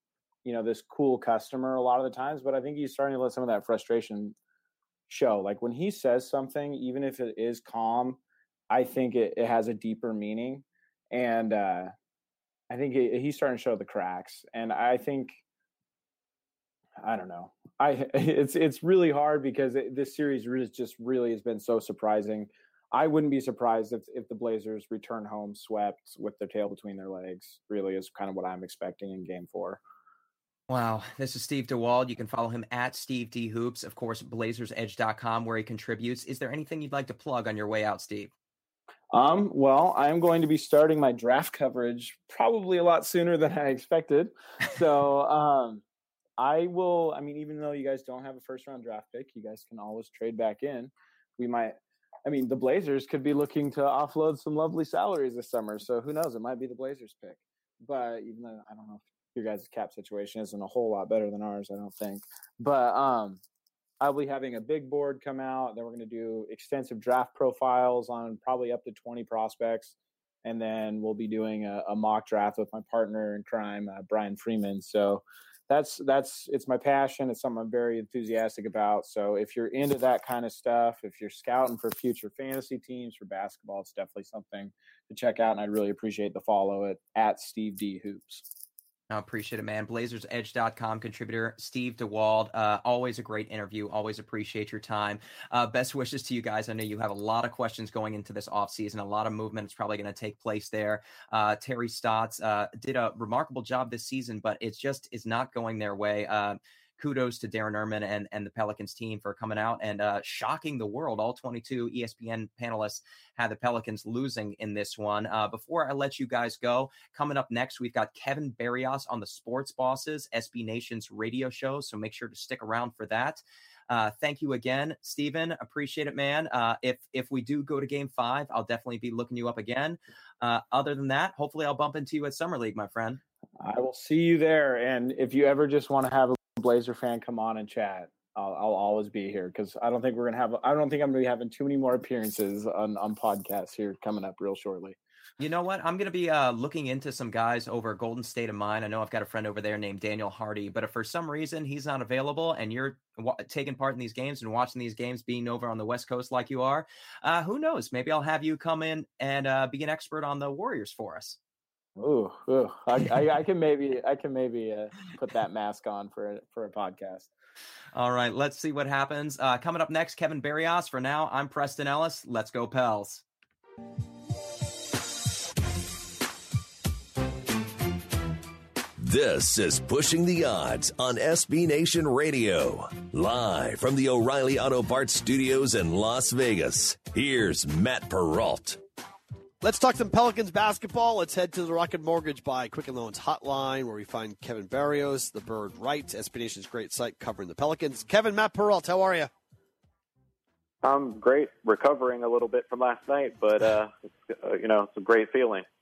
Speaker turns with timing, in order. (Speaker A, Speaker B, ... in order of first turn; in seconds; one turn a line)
Speaker A: 0.4-4.3
Speaker A: 5.1-8.2
Speaker A: 8.7-11.9
Speaker A: 12.7-15.4
Speaker A: 17.0-29.8
Speaker B: 30.7-38.3
Speaker A: 39.1-45.8
Speaker A: 46.4-63.4
Speaker A: 64.0-88.4
Speaker B: 89.1-133.2
Speaker A: 133.6-145.0
Speaker B: 145.4-161.4
Speaker A: 162.0-167.3
Speaker B: 167.9-173.2
Speaker C: 179.0-188.8
Speaker D: 189.6-199.3
Speaker E: 200.8-205.7